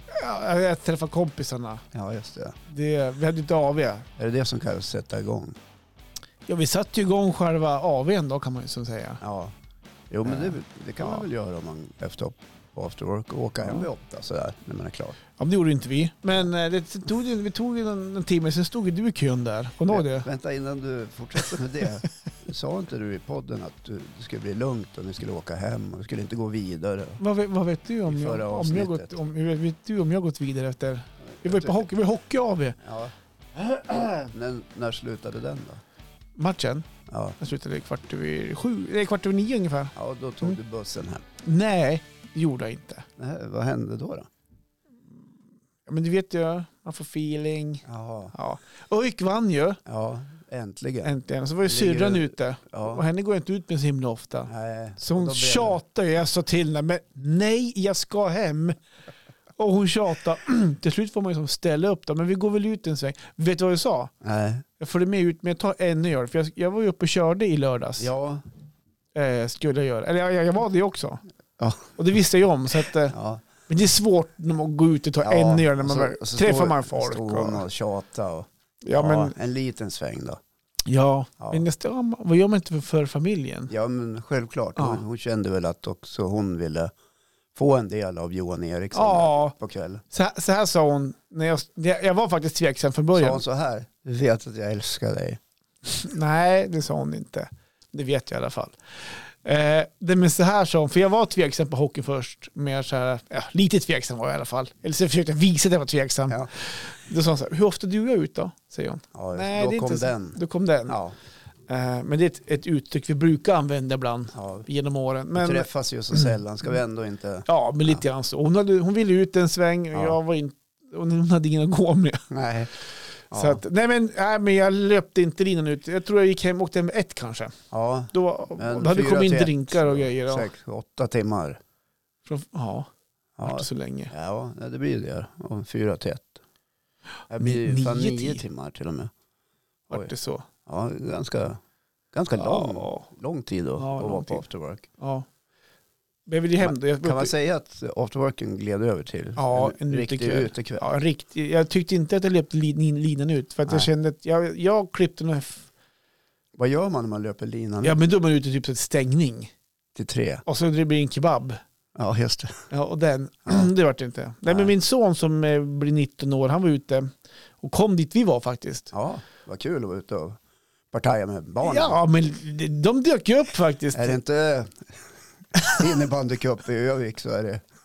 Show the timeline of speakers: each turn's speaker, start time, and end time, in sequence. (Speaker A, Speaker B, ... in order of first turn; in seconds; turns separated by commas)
Speaker A: 0.1-1.8, Speaker B: 1.9-2.6, Speaker A: 2.7-4.1, Speaker B: 4.2-5.6, Speaker A: 6.5-9.2, Speaker B: 9.2-9.6, Speaker B: 10.1-15.2, Speaker A: 10.2-11.2, Speaker A: 15.4-20.3, Speaker B: 19.9-27.2, Speaker A: 27.2-32.8, Speaker B: 28.1-29.2, Speaker B: 31.3-31.9, Speaker B: 32.8-33.1, Speaker A: 33.6-34.3, Speaker B: 34.3-35.8, Speaker A: 36.4-36.9, Speaker B: 37.1-37.4, Speaker A: 37.4-39.9, Speaker B: 40.0-41.2, Speaker A: 41.4-43.1, Speaker B: 43.2-44.3, Speaker A: 45.9-49.8, Speaker B: 47.9-48.3, Speaker B: 49.9-51.1, Speaker A: 51.0-58.8, Speaker B: 51.6-53.0, Speaker B: 54.5-55.8, Speaker A: 59.6-64.1, Speaker B: 64.2-64.7, Speaker A: 64.8-68.1, Speaker B: 68.0-68.4, Speaker A: 69.2-71.2, Speaker A: 72.0-73.2, Speaker B: 73.1-73.4, Speaker A: 73.7-77.6, Speaker B: 75.2-80.4, Speaker A: 78.8-79.3, Speaker A: 80.9-83.7, Speaker B: 83.7-86.9, Speaker B: 87.5-90.0, Speaker A: 88.9-89.5, Speaker A: 90.1-93.4, Speaker B: 93.1-95.4, Speaker A: 95.9-111.0, Speaker B: 109.1-111.2, Speaker A: 111.7-115.7, Speaker B: 114.3-114.7, Speaker B: 115.3-118.0, Speaker A: 117.5-122.3, Speaker B: 122.3-122.7, Speaker B: 123.3-123.6, Speaker A: 123.3-127.6, Speaker B: 127.7-131.6, Speaker A: 128.1-130.5, Speaker A: 132.3-132.9, Speaker B: 133.4-136.4, Speaker A: 133.4-134.1, Speaker B: 137.3-139.1, Speaker A: 137.4-138.4, Speaker A: 139.9-140.5, Speaker B: 140.7-141.6, Speaker B: 142.1-144.9, Speaker A: 142.4-143.1, Speaker A: 143.8-144.4, Speaker A: 145.0-145.3, Speaker A: 146.3-147.3, Speaker B: 146.6-150.8, Speaker A: 149.4-155.6, Speaker B: 156.6-158.0, Speaker A: 157.8-159.5, Speaker B: 159.9-160.4, Speaker A: 160.5-161.6, Speaker B: 161.9-162.7, Speaker A: 162.7-167.1, Speaker B: 164.5-164.7, Speaker A: 167.6-168.9, Speaker B: 168.9-170.4, Speaker B: 170.9-172.0, Speaker A: 171.6-174.2, Speaker B: 173.9-175.0, Speaker B: 175.6-177.6